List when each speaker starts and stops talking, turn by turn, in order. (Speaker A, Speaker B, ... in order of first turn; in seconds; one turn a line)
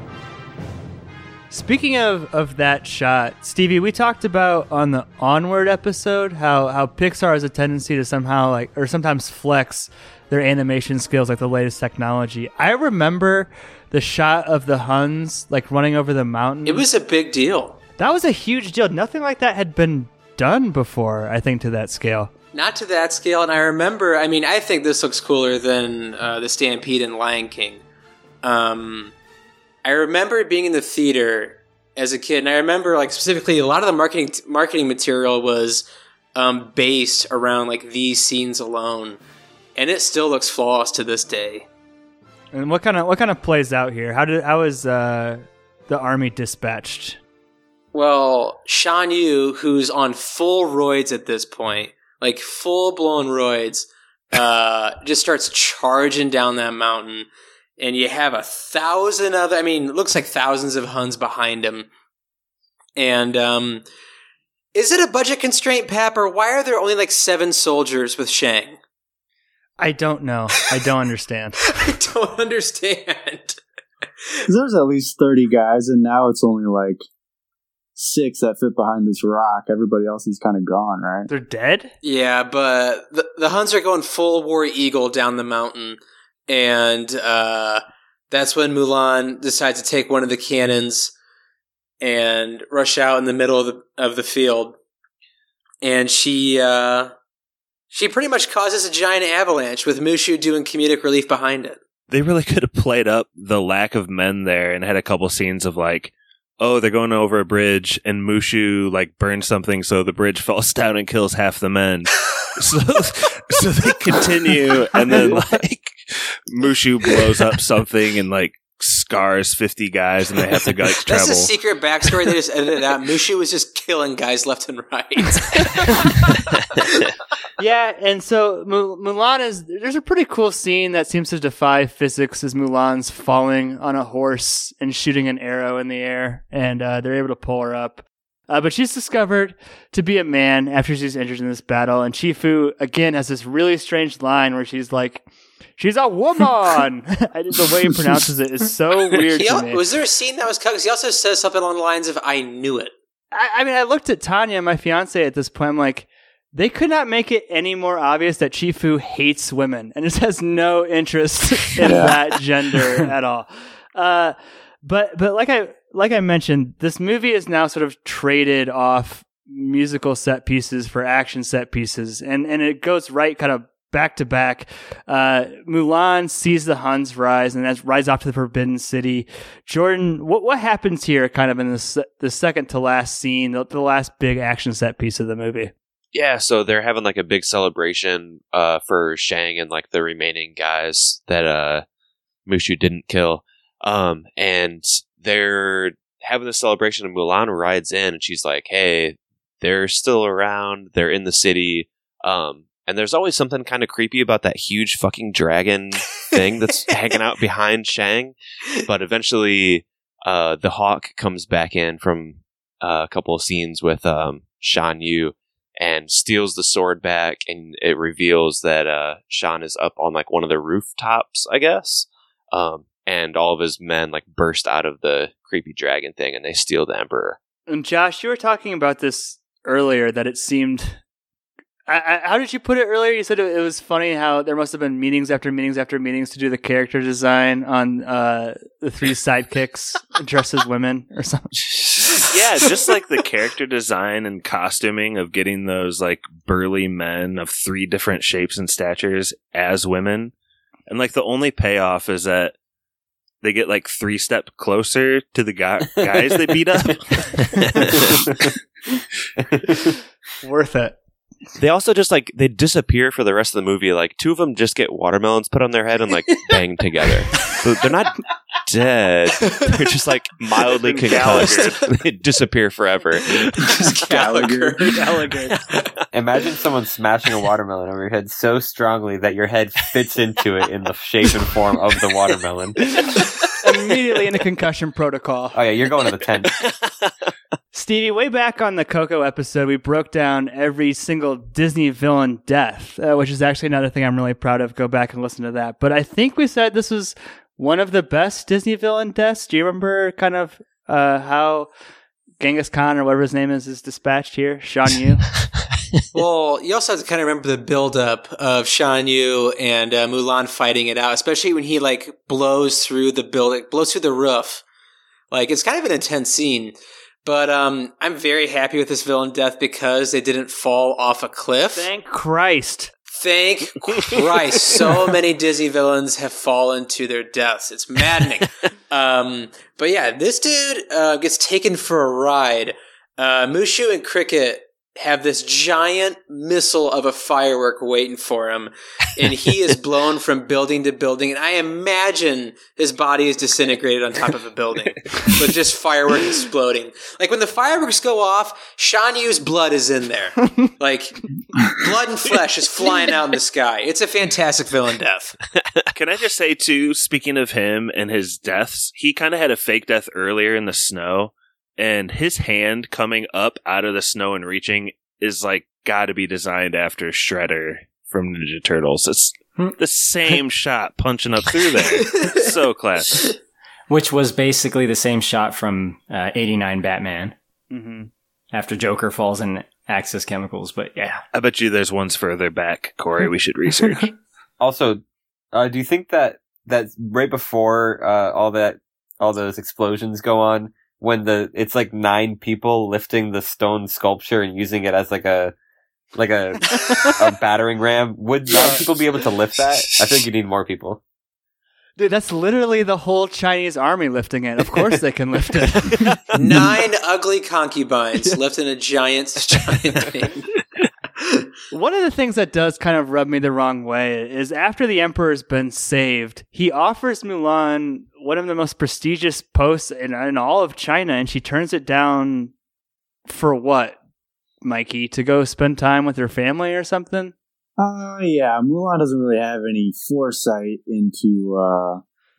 Speaker A: 1.5-16.9
Speaker B: 16.7-17.8
Speaker A: 18.0-22.3
Speaker B: 22.5-27.8
Speaker B: 28.4-29.1
Speaker B: 29.8-39.2
Speaker B: 39.8-41.7
Speaker A: 42.5-47.2
Speaker B: 47.9-61.9
Speaker B: 63.0-63.8
Speaker B: 64.8-68.8
Speaker A: 69.8-71.6
Speaker B: 71.7-73.6
Speaker C: 74.5-77.0
Speaker C: 78.0-81.3
Speaker A: 81.3-81.9
Speaker B: 82.0-91.1
Speaker B: 92.0-94.8
Speaker B: 95.8-97.1
Speaker B: 97.9-101.8
Speaker D: 102.1-121.5
Speaker B: 121.1-126.2
Speaker A: 127.6-145.2
Speaker A: 145.8-149.8
Speaker B: 149.3-152.9
Speaker A: 153.3-185.7
Speaker C: 161.8-162.2
Speaker E: 186.1-191.8
Speaker E: 192.5-227.4
Speaker A: 227.7-231.0
Speaker A: 231.9-241.7
Speaker D: 242.2-250.3
Speaker D: 250.9-252.6
Speaker D: 253.4-258.2
Speaker F: 258.1-258.5
Speaker F: 259.4-259.9
Speaker A: 260.4-261.0
Speaker E: 261.6-273.9
Speaker B: 271.1-271.7
Speaker B: 273.7-274.9
Speaker C: 274.1-274.8
Speaker A: 274.9-275.5
Speaker F: 276.1-282.8
Speaker A: 283.6-285.6
Speaker F: 285.6-286.6
Speaker A: 287.7-301.7
Speaker A: 302.4-305.3
Speaker B: 306.1-314.6
Speaker B: 315.3-321.9
Speaker A: 321.7-322.9
Speaker B: 323.1-355.4
Speaker D: 355.9-373.4
Speaker G: 373.9-377.3
Speaker A: 377.7-378.1
Speaker G: 378.5-381.2
Speaker D: 381.3-384.1
Speaker F: 384.6-385.0
Speaker F: 385.5-395.5
Speaker F: 396.1-401.0
Speaker A: 402.0-406.2
Speaker B: 406.4-410.4
Speaker B: 411.2-411.5
Speaker A: 411.7-422.5
Speaker A: 423.3-424.0
Speaker A: 424.6-427.3
Speaker C: 427.8-432.0